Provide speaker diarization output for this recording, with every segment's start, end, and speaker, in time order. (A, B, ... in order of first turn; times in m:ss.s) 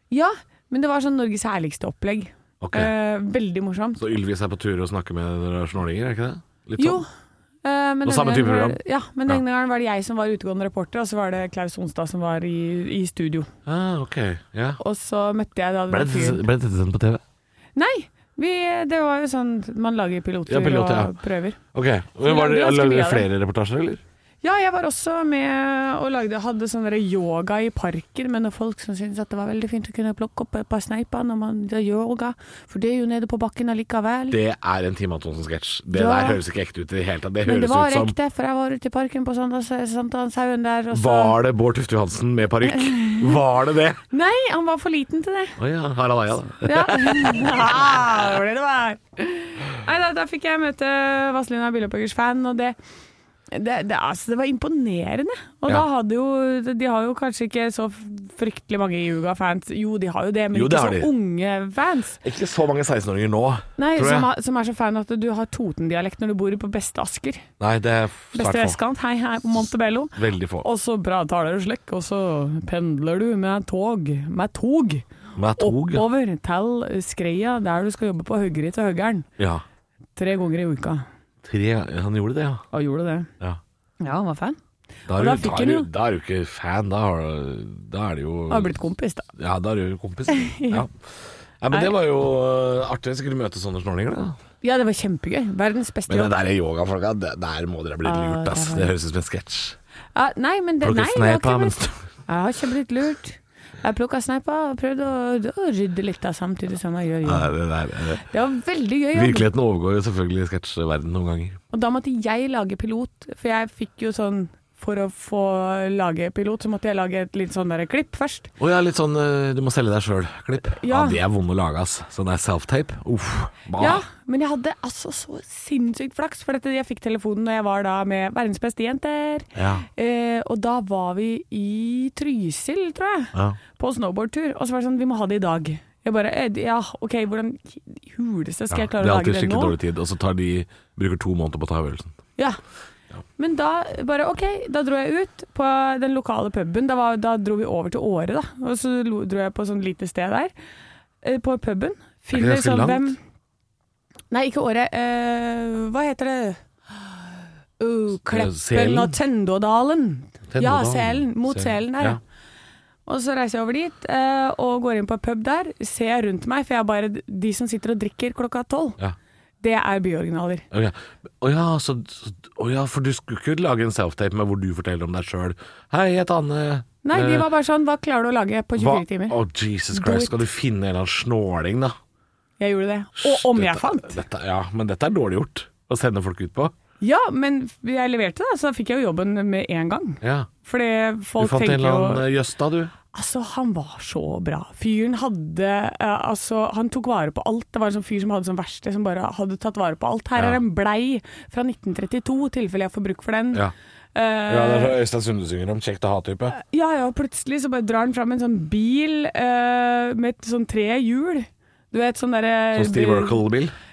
0:00.1-0:04.0 A
0:02.6-0:02.9 B
0:04.0-0:07.0 B
0:06.8-0:07.1 A
0:07.6-0:13.5 A
0:08.0-0:09.4 B
0:13.7-0:14.8 B
0:14.8-0:16.4 A
0:15.9-0:17.2 B
0:17.8-0:21.6 A
0:20.5-0:21.2 B
0:21.7-0:24.0 B
0:22.2-0:23.3 A
0:24.4-0:34.4 A
0:34.3-0:38.2 B
0:35.9-0:36.4 A
0:37.4-0:41.4 A
0:40.9-0:44.0 B
0:42.6-0:43.4 A
0:44.1-0:45.6 A
0:45.6-0:48.0 B
0:46.6-0:52.8 A
0:53.5-1:02.2 A
1:00.5-1:01.1 B
1:02.2-1:04.3 B
1:03.8-1:07.5 A
1:07.6-1:08.8 B
1:08.3-1:15.1 A
1:10.2-1:10.7 B
1:15.4-1:16.0 B
1:15.6-1:19.3 A
1:19.4-1:19.6 B
1:20.2-1:21.1 A
1:21.4-1:22.6 B
1:22.7-1:23.3 A
1:24.0-1:24.6 A
1:25.1-1:28.8 B
1:25.2-1:25.9 A
1:28.5-1:29.3 A
1:29.4-1:30.9 B
1:30.3-1:30.8 A
1:31.6-1:34.4 B
1:34.6-1:36.4 A
1:36.1-1:39.8 B
1:38.0-1:38.9 A
1:40.2-1:47.5 A
1:40.8-1:42.0 B
1:47.2-1:48.2 B
1:48.3-1:49.5 A
1:49.1-1:51.6 B
1:51.7-1:58.5 A
1:58.6-2:04.0 B
2:00.7-2:01.2 A
2:03.8-2:19.8 A
2:09.6-2:09.9 B
2:18.7-2:22.2 B
2:23.4-2:30.5 A
2:31.2-2:33.2 A
2:32.3-2:33.2 B
2:34.3-2:36.6 A
2:37.8-2:42.2 A
2:38.2-2:39.1 B
2:40.5-2:42.2 B
2:43.1-2:49.0 A
2:49.6-2:50.6 A
2:50.7-2:57.5 B
2:57.0-2:59.4 A
2:58.8-3:02.0 B
2:59.9-3:00.4 A
3:02.6-3:04.2 A
3:03.2-3:06.7 B
3:07.0-3:12.2 A
3:10.2-3:10.5 B
3:11.4-3:12.9 B
3:13.1-3:23.6 A
3:20.4-3:20.6 B
3:24.2-3:25.0 A
3:24.5-3:26.6 B
3:26.5-3:33.4 A
3:32.7-3:33.8 B